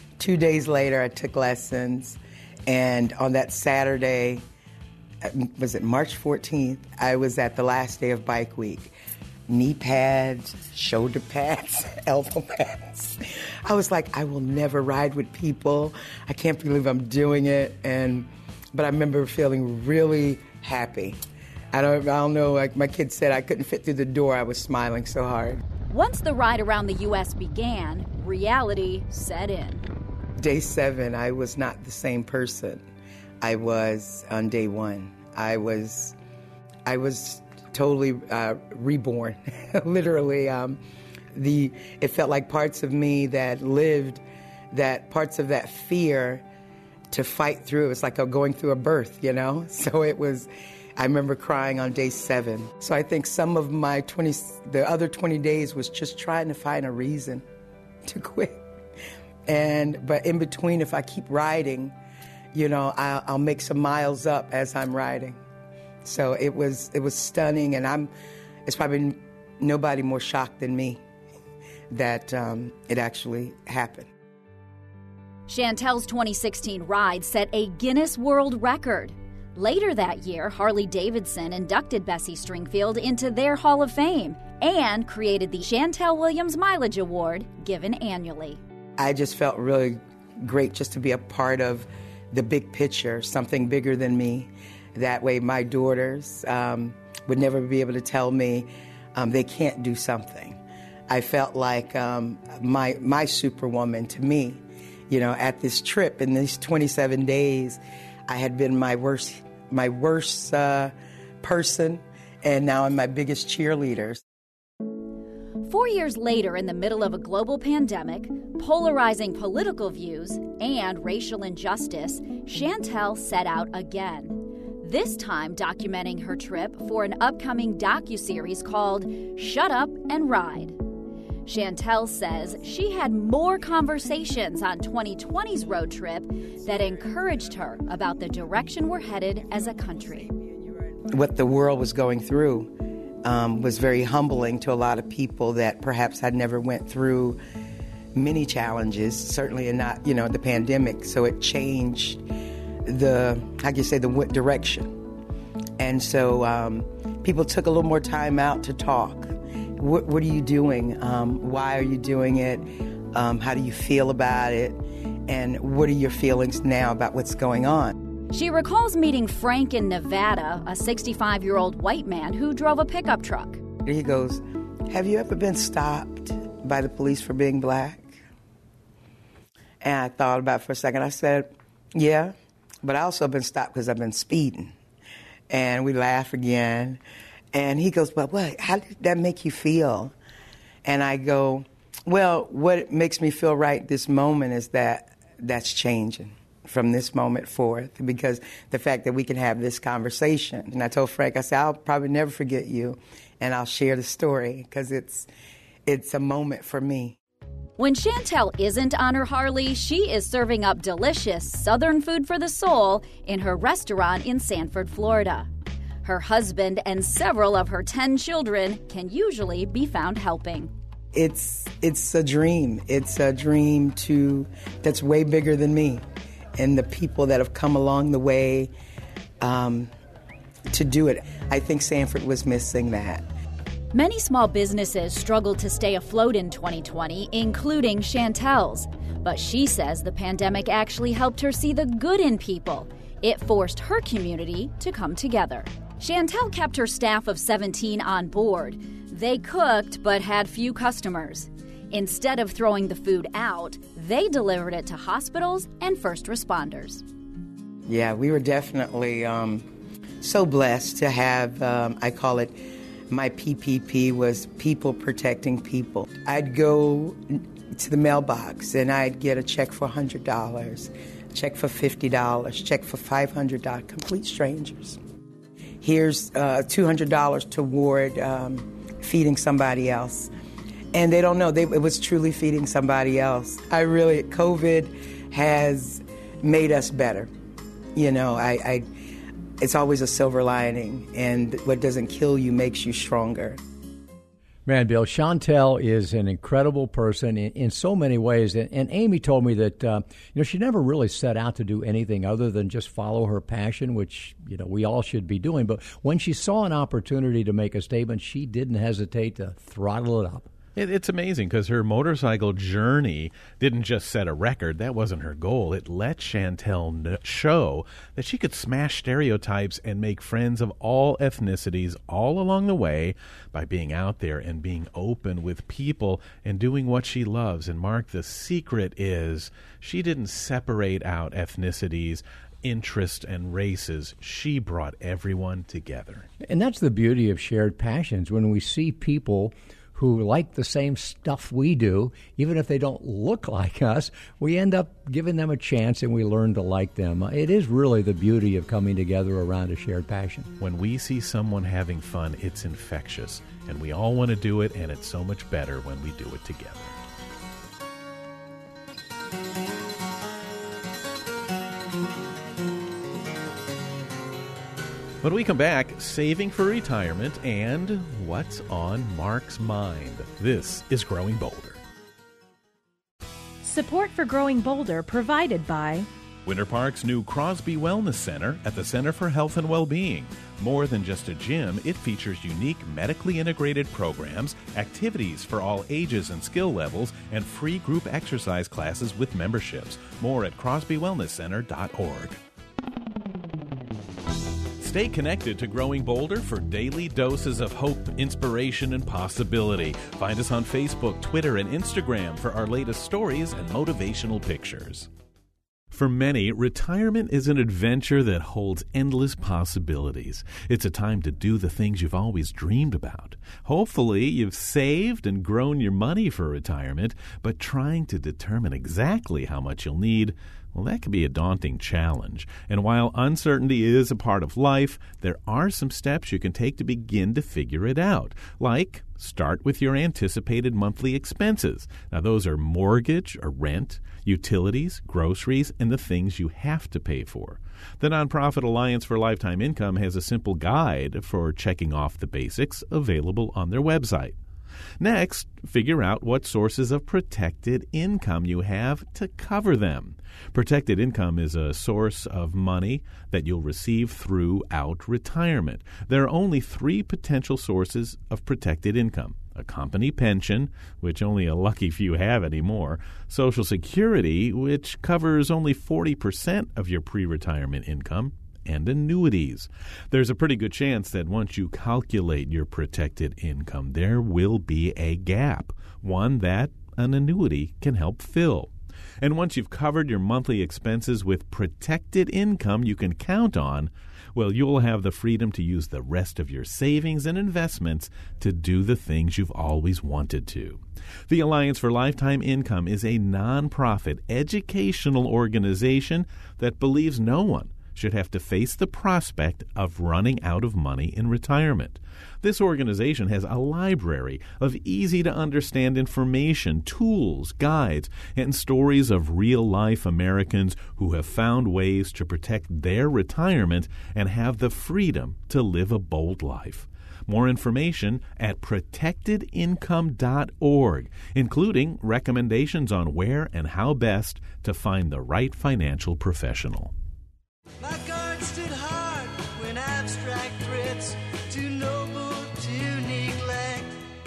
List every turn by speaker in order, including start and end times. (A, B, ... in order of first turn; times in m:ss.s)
0:00.2-0:04.4 A
0:05.2-0:08.9 A
0:09.5-0:21.2 A
0:21.7-0:25.6 A
0:25.9-0:29.8 B
0:30.4-0:32.8 A
0:33.4-0:36.2 A
0:36.9-0:40.8 A
0:41.3-0:46.4 A
0:47.1-0:57.4 A
0:58.0-0:58.6 A
0:59.5-1:02.0 A
1:02.5-1:05.4 A
1:06.0-1:08.1 A
1:08.7-1:11.0 A
1:11.9-1:14.1 A
1:15.5-1:28.6 B
1:29.0-1:54.2 A
1:55.6-2:10.8 B
2:11.4-2:20.3 B
2:21.1-2:27.4 A
2:28.1-2:32.2 A
2:32.8-2:35.0 A
2:35.8-2:48.0 A
2:48.3-2:53.6 B
2:53.8-2:58.2 A
2:59.8-3:04.7 A
3:05.5-3:07.0 A
3:07.5-3:10.1 A
3:10.8-3:25.3 A
3:25.9-3:27.2 A
3:27.8-3:35.5 B
3:36.0-3:40.7 B
3:41.1-3:46.0 A
3:46.6-3:48.7 A
3:49.4-3:49.9 A
3:50.7-3:53.2 A
3:53.9-4:17.0 B
4:17.9-4:19.7 A
4:20.2-4:35.0 A
4:35.8-4:40.3 A
4:40.9-4:47.3 A
4:48.0-4:48.9 A
4:49.6-4:53.6 A
4:54.7-5:10.5 C
5:10.8-5:36.3 D
5:36.4-5:50.5 C
5:50.6-5:57.0 D
6:05.2-6:11.8 D
6:13.6-6:16.1 E
6:16.5-6:32.4 D
6:34.8-6:45.1 D
6:45.9-7:24.4 D
7:25.0-8:46.9 D
8:47.8-8:54.0 F